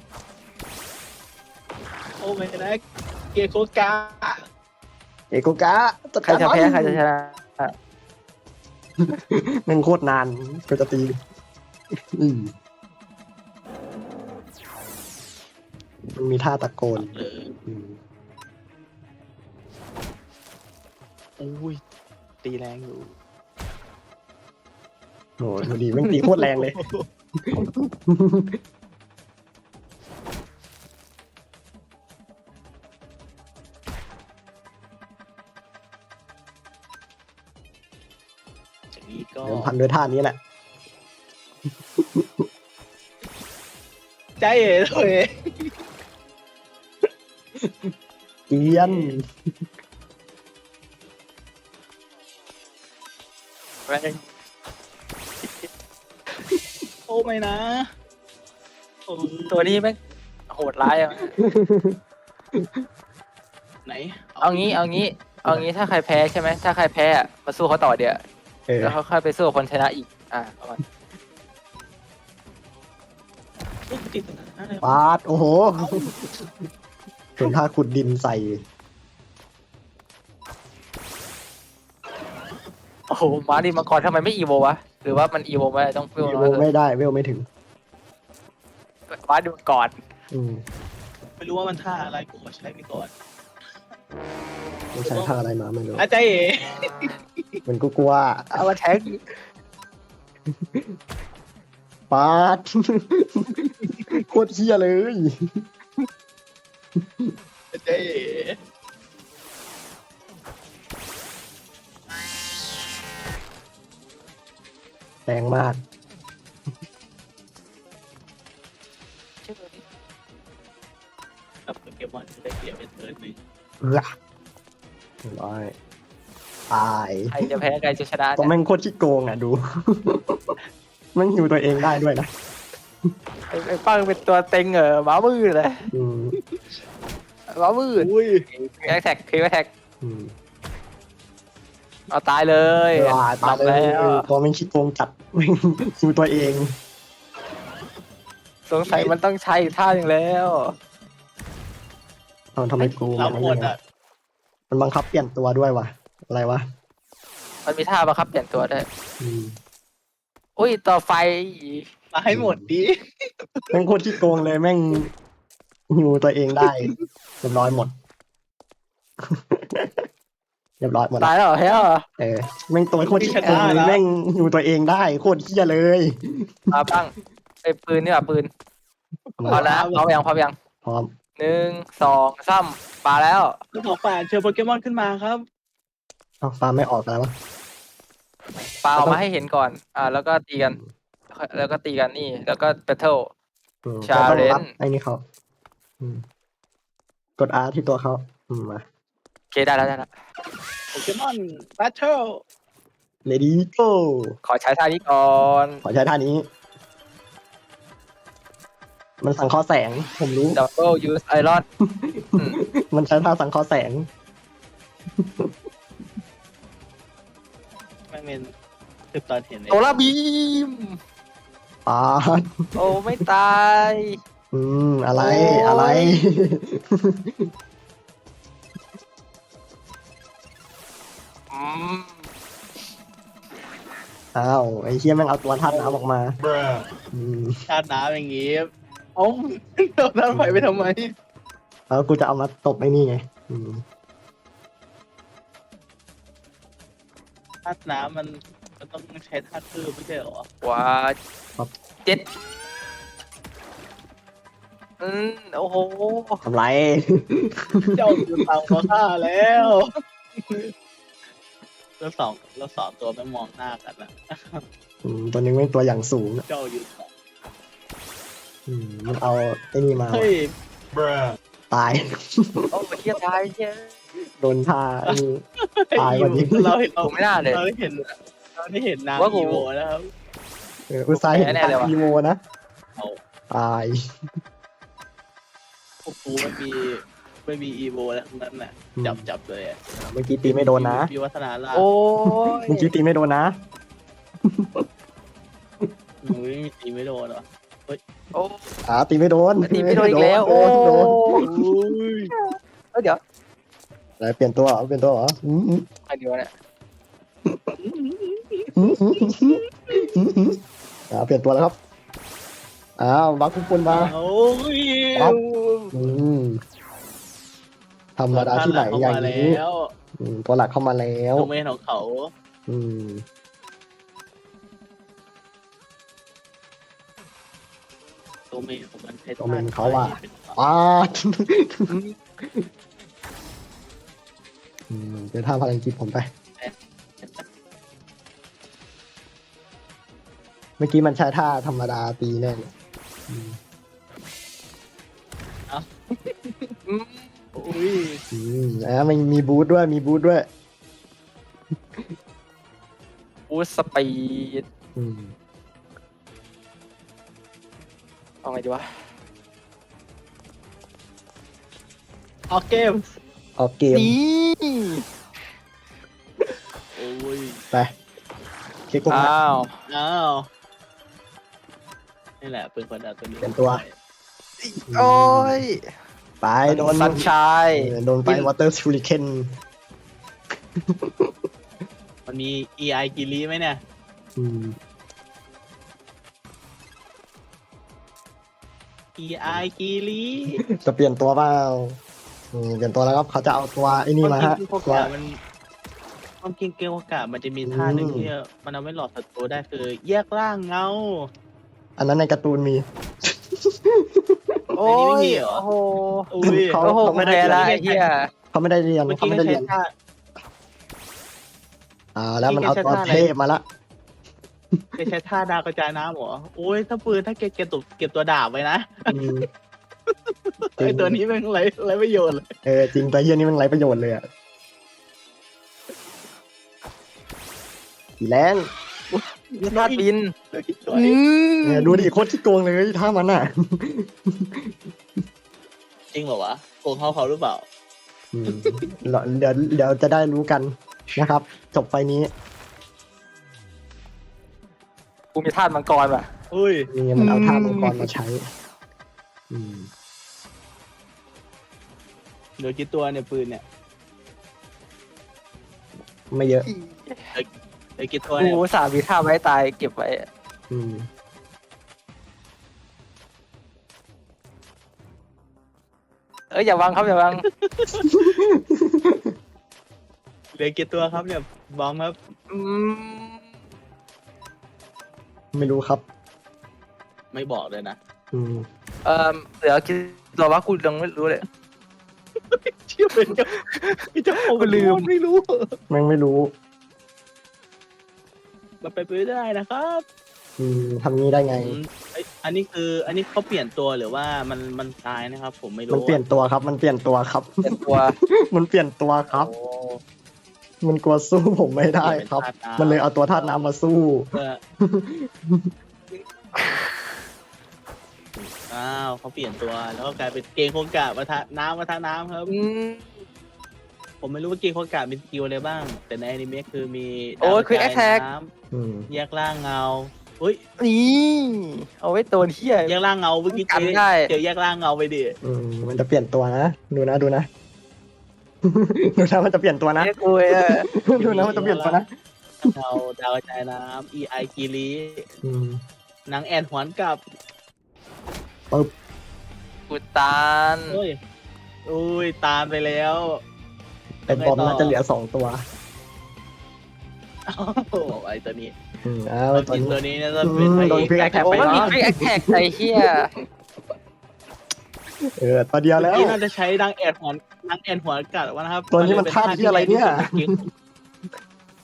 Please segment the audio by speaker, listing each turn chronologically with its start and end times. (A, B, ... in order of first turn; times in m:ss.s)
0:02.2-0:02.8 A
0:03.3-0:04.4 A
0:05.3-0:07.0 B
0:06.2-0:07.7 C
0:09.0-0:11.1 B
0:12.1-0:12.5 B
0:16.1-0:17.1 B
0:16.9-0:17.5 A
0:17.6-0:18.0 B
0:21.4-0:21.8 A
0:22.4-0:23.1 A
0:25.4-0:26.8 B
0:25.7-0:27.9 A
0:27.4-0:28.6 B
0:38.9-0:39.7 A
0:39.4-0:40.4 B
0:42.0-0:42.5 B
0:44.4-0:45.7 A
0:47.6-0:47.9 B
0:48.5-0:49.2 B
0:48.7-0:49.1 A
0:53.9-0:54.3 C
0:57.1-0:57.8 A
0:59.1-0:59.8 A
0:59.5-1:00.0 C
1:00.5-1:01.3 C
1:01.4-1:02.0 B
1:02.5-1:02.8 B
1:03.8-1:04.7 A
1:04.4-1:08.2 C
1:05.4-1:05.7 B
1:08.7-1:09.0 B
1:08.8-1:10.8 C
1:13.9-1:15.0 A
1:14.8-1:16.1 B
1:15.8-1:16.4 A
1:17.4-1:18.6 B
1:23.1-1:26.6 C
1:26.2-1:27.5 B
1:29.1-1:29.9 C
1:30.3-1:30.6 B
1:31.4-1:33.1 A
1:34.9-1:36.0 B
1:35.0-1:35.3 A
1:36.0-1:37.6 A
1:36.9-1:37.1 C
1:37.7-1:38.7 B
1:38.5-1:39.2 C
1:40.5-1:40.9 B
1:42.1-1:45.4 B
1:47.0-1:47.3 B
1:47.7-1:48.6 A
1:55.2-1:55.8 B
1:59.4-1:59.8 C
2:01.7-2:03.4 A
2:03.8-2:04.1 B
2:05.2-2:05.7 B
2:06.7-2:07.4 B
2:07.3-2:08.5 C
2:08.4-2:10.6 B
2:11.1-2:12.3 B
2:13.5-2:15.8 C
2:15.9-2:16.4 B
2:17.5-2:19.7 C
2:18.0-2:18.4 A
2:20.0-2:20.3 B
2:22.1-2:24.2 C
2:22.9-2:26.7 B
2:28.7-2:30.7 C
2:32.6-2:33.7 B
2:32.8-2:33.8 A
2:34.7-2:36.6 B
2:37.6-2:38.8 C
2:39.2-2:39.6 B
2:40.6-2:41.8 C
2:42.1-2:43.8 A
2:42.3-2:42.7 B
2:43.7-2:45.1 B
2:45.9-2:46.9 B
2:46.6-2:47.0 A
2:47.4-2:47.9 B
2:49.2-2:50.0 B
2:50.8-2:51.3 B
2:51.2-2:52.0 C
2:52.2-2:56.8 B
2:53.1-2:54.0 A
2:53.3-2:53.7 C
2:56.7-2:57.1 C
2:57.6-2:58.5 C
2:59.3-3:00.0 A
2:59.4-2:59.7 B
2:59.5-3:00.5 C
3:00.8-3:01.1 B
3:01.4-3:03.6 C
3:03.7-3:05.4 A
3:06.4-3:07.3 B
3:08.8-3:10.8 C
3:09.0-3:09.2 B
3:10.6-3:10.9 B
3:11.3-3:13.3 C
3:13.8-3:15.2 B
3:14.0-3:14.7 C
3:16.0-3:16.2 B
3:17.4-3:18.8 B
3:19.5-3:20.1 C
3:20.9-3:22.4 A
3:23.2-3:24.4 B
3:24.4-3:25.8 C
3:25.8-3:26.5 B
3:29.2-3:30.6 B
3:30.6-3:31.6 C
3:31.8-3:34.1 B
3:35.2-3:35.6 B
3:38.1-3:38.5 A
3:39.1-3:40.1 A
3:39.7-3:41.0 C
3:41.8-3:42.9 B
3:42.8-3:44.2 C
3:44.5-3:47.5 B
3:45.2-3:46.0 A
3:51.5-3:52.2 C
3:54.3-3:56.4 B
3:55.7-3:56.0 A
3:57.1-3:57.6 B
3:57.7-4:01.1 A
4:00.3-4:00.7 B
4:01.9-4:03.8 B
4:07.6-4:10.5 A
4:10.6-4:11.2 C
4:15.0-4:16.4 C
4:16.4-4:18.8 B
4:18.0-4:20.7 A
4:22.0-4:24.6 A
4:25.0-4:26.4 B
4:26.5-4:27.1 A
4:28.7-4:30.3 B
4:30.1-4:30.5 A
4:31.7-4:32.7 B
4:32.7-4:33.9 C
4:34.4-4:35.4 B
4:35.0-4:40.0 A
4:36.0-4:36.7 B
4:37.0-4:37.6 C
4:39.2-4:39.7 C
4:40.9-4:42.4 B
4:41.1-4:41.9 C
4:43.5-4:44.0 B
4:46.0-4:49.8 A
4:49.0-4:49.3 B
4:50.0-4:51.1 B
4:50.4-4:51.8 A
4:51.7-4:52.9 C
4:52.2-4:53.6 B
4:54.4-4:54.8 B
4:56.2-4:58.0 A
4:58.3-4:58.6 C
4:58.8-5:01.4 B
4:59.7-5:01.5 C
5:01.4-5:02.3 A
5:02.3-5:03.2 C
5:04.2-5:05.8 B
5:06.1-5:06.5 C
5:07.4-5:07.7 B
5:07.8-5:08.7 A
5:08.8-5:10.6 B
5:09.4-5:10.1 A
5:11.1-5:11.8 B
5:13.0-5:14.1 B
5:13.9-5:15.9 A
5:15.9-5:16.6 B
5:18.2-5:19.6 B
5:18.3-5:19.9 A
5:20.2-5:21.5 B
5:21.4-5:22.3 A
5:22.7-5:23.2 B
5:28.5-5:30.6 A
5:29.4-5:32.7 B
5:31.9-5:32.2 C
5:34.9-5:36.3 B
5:36.6-5:37.4 A
5:40.8-5:42.7 B
5:43.3-5:43.6 B
5:45.7-5:46.7 A
5:46.9-5:47.3 C
5:47.6-5:48.2 A
5:48.3-5:50.5 B
5:53.5-5:54.6 C
5:55.0-5:55.3 B
5:58.4-5:58.8 C
6:02.5-6:03.0 A
6:03.6-6:04.2 B
6:03.9-6:05.0 C
6:06.9-6:07.6 A
6:08.9-6:09.3 B
6:09.1-6:09.7 C
6:09.9-6:10.5 A
6:12.4-6:13.9 A
6:13.4-6:13.8 B
6:14.6-6:15.8 C
6:14.9-6:15.6 B
6:16.4-6:19.5 B
6:16.7-6:18.5 C
6:20.8-6:21.4 B
6:22.3-6:23.8 A
6:24.4-6:24.8 B
6:29.2-6:30.6 A
6:30.6-6:32.0 B
6:32.5-6:35.1 B
6:34.2-6:35.3 A
6:36.4-6:41.3 A
6:37.6-6:38.3 B
6:42.0-6:44.7 B
6:44.7-6:46.3 C
6:44.8-6:45.6 A
6:46.3-6:46.8 A
6:46.4-6:47.7 B
6:46.8-6:48.3 C
6:47.4-6:48.0 A
6:48.5-6:49.7 B
6:49.1-6:49.9 A
6:52.1-6:53.6 B
6:52.5-6:53.3 A
6:54.7-6:55.1 B
6:55.0-6:59.2 A
6:59.1-6:59.5 B
7:00.1-7:02.5 A
7:00.8-7:01.2 B
7:02.6-7:04.2 B
7:08.2-7:08.7 B
7:09.1-7:11.2 A
7:09.6-7:10.3 C
7:10.9-7:12.0 C
7:11.6-7:14.8 B
7:16.1-7:17.6 A
7:18.3-7:22.3 B
7:18.5-7:18.8 A
7:25.3-7:26.3 C
7:26.5-7:26.9 A
7:26.9-7:28.4 B
7:27.2-7:28.0 C
7:29.5-7:29.9 B
7:32.6-7:33.6 A
7:36.3-7:36.7 B
7:36.6-7:37.2 C
7:37.3-7:38.6 A
7:38.4-7:40.2 C
7:40.7-7:41.1 B
7:46.5-7:47.4 C
7:47.4-7:48.1 A
7:48.0-7:49.3 B
7:50.5-7:52.2 A
7:52.5-7:53.4 C
7:55.5-7:56.0 B
7:57.3-7:58.0 A
7:58.3-7:58.7 B
7:59.0-8:01.4 C
8:02.4-8:05.7 A
8:04.5-8:05.1 C
8:05.9-8:06.5 B
8:08.8-8:10.0 A
8:10.6-8:11.8 B
8:11.5-8:16.2 A
8:15.9-8:19.5 B
8:17.6-8:18.2 C
8:19.3-8:19.9 A
8:20.8-8:24.3 B
8:22.0-8:23.5 A
8:24.3-8:24.6 A
8:24.8-8:25.7 B
8:26.5-8:26.9 C
8:28.4-8:32.5 A
8:32.5-8:33.2 C
8:34.2-8:38.5 A
8:37.4-8:38.2 C
8:38.7-8:39.1 B
8:39.1-8:40.6 A
8:40.8-8:42.9 C
8:42.8-8:45.4 A
8:43.5-8:44.3 C
8:45.4-8:47.5 B
8:48.6-8:52.1 B
8:50.0-8:50.9 C
8:51.2-8:52.0 A
8:52.6-8:55.3 A
8:55.4-8:55.8 B
8:56.3-8:57.2 A
8:59.9-9:01.0 C
9:00.9-9:01.2 A
9:01.9-9:03.4 A
9:04.3-9:05.6 B
9:04.3-9:05.0 A
9:07.5-9:08.7 A
9:09.0-9:13.1 B
9:09.5-9:12.0 A
9:11.4-9:13.3 C
9:15.2-9:16.4 B
9:16.0-9:20.7 A
9:18.9-9:20.5 B